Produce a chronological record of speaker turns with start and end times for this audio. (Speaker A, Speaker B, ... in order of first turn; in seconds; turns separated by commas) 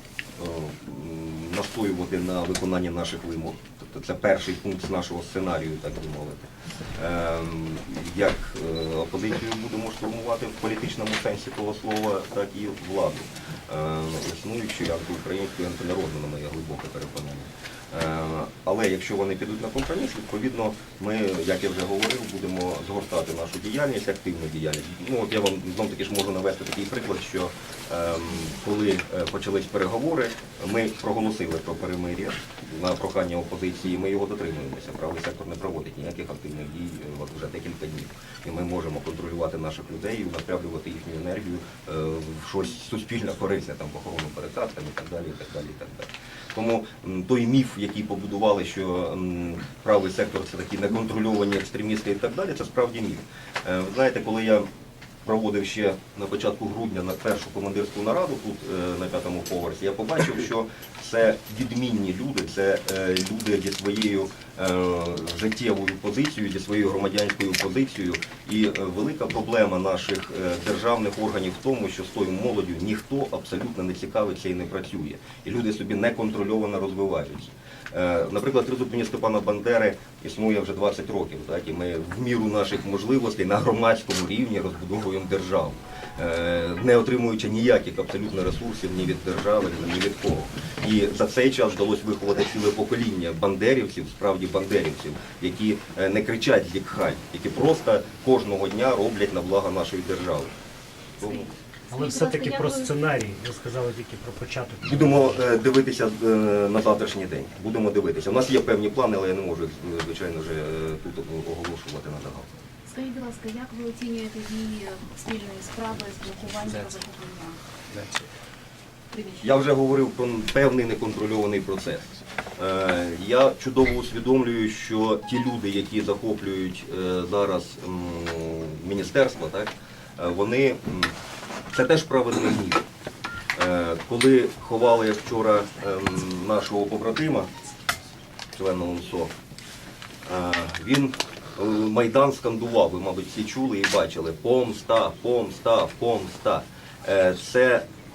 Speaker A: 0.4-54.6, Speaker A: 55.2-100.5, Speaker A: 101.2-101.5, Speaker B: 101.2-102.9, Speaker C: 101.9-105.4, Speaker A: 104.8-112.5, Speaker B: 112.8-117.6, Speaker B: 119.1-119.5, Speaker A: 119.4-131.1, Speaker A: 131.7-132.8, Speaker A: 133.6-137.5, Speaker A: 138.5-139.3, Speaker A: 140.2-147.8